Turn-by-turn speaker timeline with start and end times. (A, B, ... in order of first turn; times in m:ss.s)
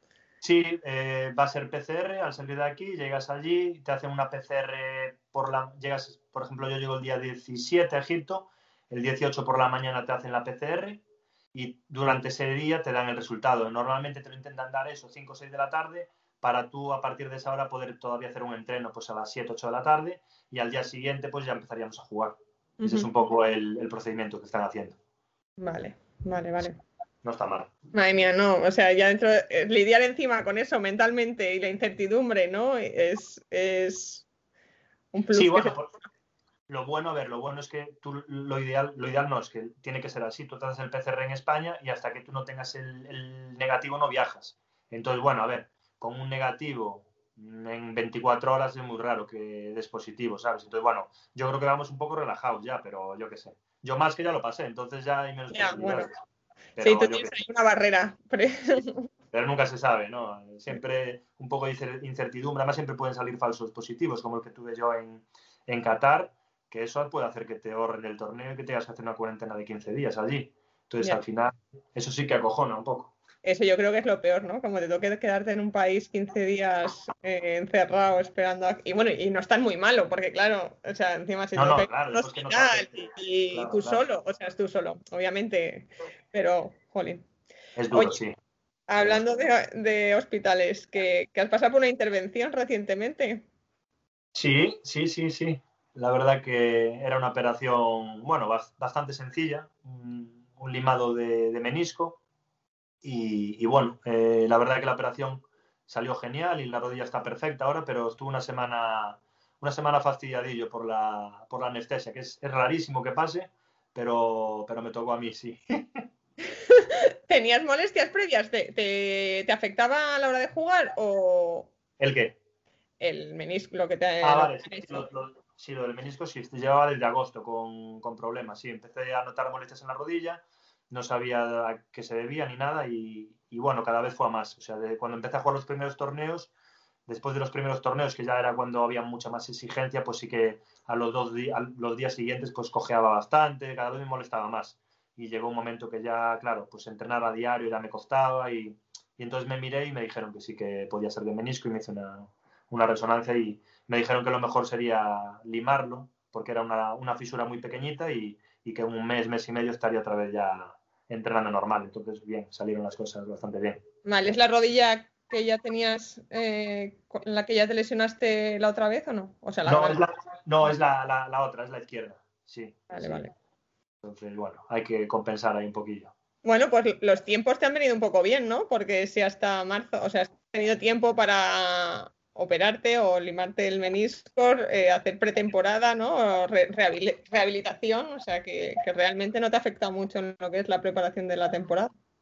0:00.4-0:11.0 A
0:11.5-0:25.0 A
0:22.8-0:23.1 B
0:25.6-0:26.8 B
0:27.2-0:27.7 A
0:27.9-0:34.3 B
0:35.1-0:35.8 B
0:35.3-0:35.9 A
0:36.7-0:56.1 A
0:55.5-0:56.1 B
0:56.8-0:57.3 A
0:56.8-0:59.1 B
0:58.7-1:13.1 A
1:13.4-1:27.2 B
1:21.6-1:24.0 A
1:27.8-1:28.4 A
1:28.9-1:33.5 B
1:34.4-1:42.2 A
1:43.0-1:56.0 A
1:56.7-2:01.7 B
2:02.0-2:02.4 A
2:03.0-2:05.1 B
2:04.2-2:16.5 A
2:17.1-2:43.8 A
2:44.0-2:50.0 B
2:49.6-2:53.2 A
2:52.9-2:53.3 B
2:54.0-2:56.1 A
2:56.4-3:11.9 B